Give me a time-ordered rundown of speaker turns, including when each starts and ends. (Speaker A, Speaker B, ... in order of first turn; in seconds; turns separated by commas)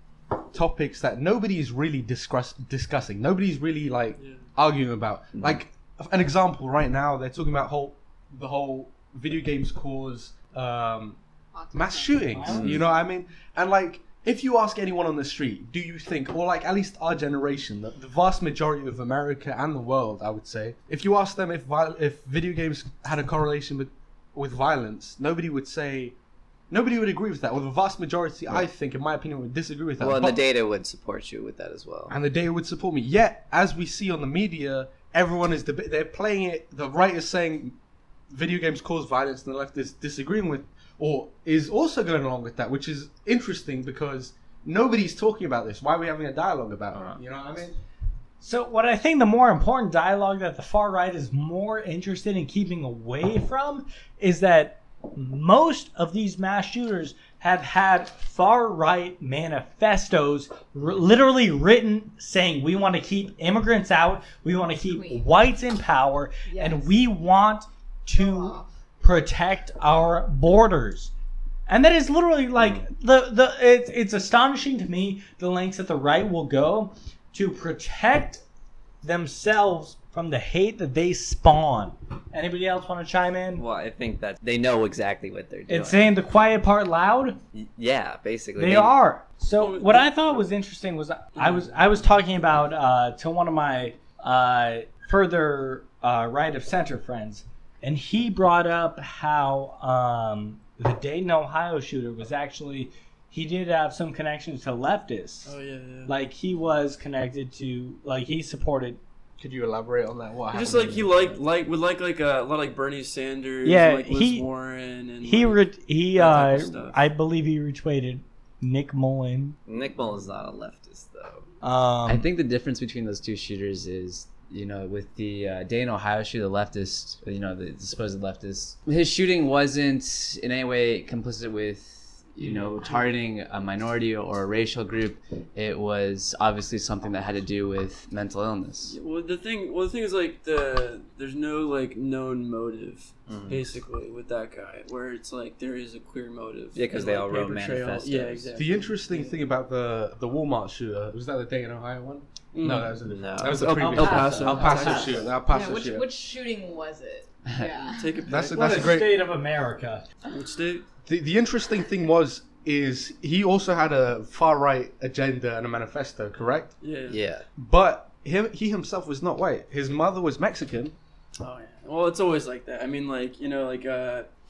Speaker A: 0.5-11.2, Speaker B: 4.2-4.5, Speaker C: 11.5-12.4, Speaker A: 11.7-26.1, Speaker D: 12.3-12.8, Speaker E: 12.4-12.8, Speaker A: 26.7-30.4, Speaker E: 30.0-32.1, Speaker A: 32.1-37.8, Speaker A: 38.3-47.8, Speaker D: 48.4-71.1, Speaker C: 64.9-65.3, Speaker C: 66.5-66.9, Speaker C: 68.1-68.7, Speaker D: 71.7-78.4, Speaker E: 72.6-72.8, Speaker D: 79.0-83.6, Speaker E: 83.5-86.1, Speaker D: 85.7-87.4, Speaker E: 87.5-88.9, Speaker D: 88.6-105.5, Speaker B: 89.5-90.4, Speaker B: 91.4-91.7, Speaker B: 105.4-106.1, Speaker D: 106.1-109.0, Speaker A: 109.4-111.4, Speaker B: 110.5-117.0, Speaker D: 113.6-114.5, Speaker D: 115.2-119.6, Speaker E: 119.7-121.5, Speaker D: 121.6-122.2, Speaker F: 122.0-138.9, Speaker B: 132.4-133.0, Speaker B: 138.9-149.4, Speaker E: 143.3-143.6, Speaker E: 146.7-148.5, Speaker A: 148.6-156.1, Speaker B: 152.5-155.3, Speaker E: 153.1-153.7, Speaker D: 153.7-155.2, Speaker C: 155.4-158.3, Speaker B: 157.8-159.0, Speaker A: 158.3-159.3, Speaker D: 158.5-160.1, Speaker B: 160.3-160.8, Speaker A: 161.0-166.7, Speaker B: 166.8-167.2, Speaker E: 167.1-167.4, Speaker A: 167.6-170.9, Speaker B: 171.4-174.3